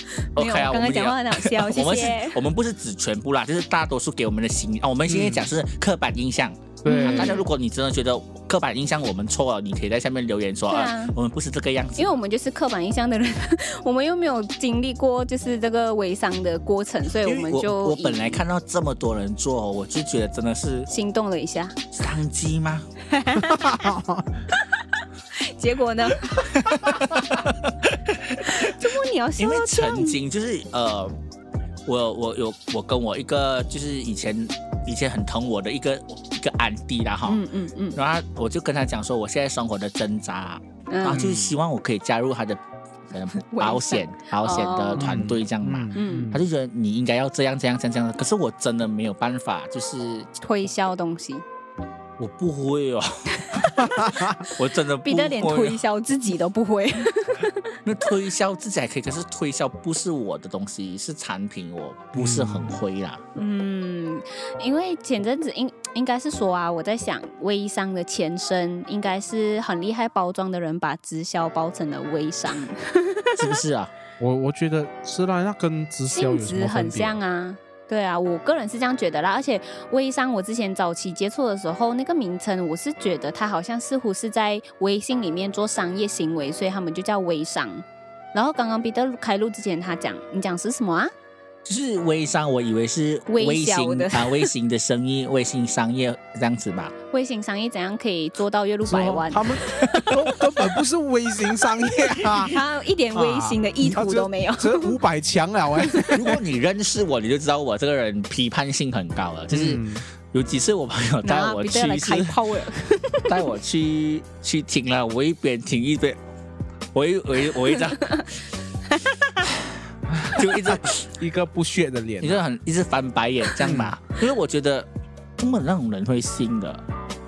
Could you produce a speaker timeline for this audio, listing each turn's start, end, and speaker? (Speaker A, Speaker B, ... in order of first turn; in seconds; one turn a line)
Speaker A: 0.3-2.4
Speaker B: 0.3-12.1
Speaker C: 5.1-5.5
Speaker C: 6.8-7.4
Speaker A: 6.8-7.5
Speaker A: 10.7-11.2
Speaker A: 12.0-18.4
Speaker B: 17.1-20.9
Speaker A: 20.9-21.8
Speaker B: 21.9-22.9
Speaker A: 23.1-23.9
Speaker C: 23.4-24.4
Speaker A: 24.6-27.3
Speaker B: 26.2-31.1
Speaker A: 28.4-30.2
Speaker B: 31.9-37.4
Speaker A: 37.3-38.0
Speaker B: 38.0-50.3
Speaker A: 40.9-41.2
Speaker C: 41.1-41.5
Speaker A: 43.3-45.2
Speaker C: 45.0-46.4
Speaker A: 45.9-46.3
Speaker A: 50.4-51.4
Speaker B: 52.2-55.8
Speaker A: 53.3-53.9
Speaker C: 53.8-54.4
Speaker A: 55.0-57.8
Speaker B: 57.8-63.2
Speaker C: 62.2-62.8
Speaker A: 63.4-73.6
Speaker B: 73.3-73.9
Speaker C: 74.2-77.2
Speaker A: 76.1-91.1
Speaker B: 91.7-96.9
Speaker A: 93.3-94.5
Speaker A: 97.1-100.4
Speaker C: 98.9-102.6
Speaker A: 102.4-105.0
Speaker C: 103.1-106.4
Speaker A: 105.8-106.1
Speaker B: 106.1-112.4
Speaker C: 109.5-110.0
Speaker A: 111.2-113.4
Speaker B: 113.3-116.2
Speaker B: 116.9-118.2
Speaker A: 117.9-118.3
Speaker A: 118.9-119.5
Speaker C: 120.1-122.4
Speaker B: 120.2-121.1
Speaker B: 122.2-126.8
Speaker C: 123.6-123.9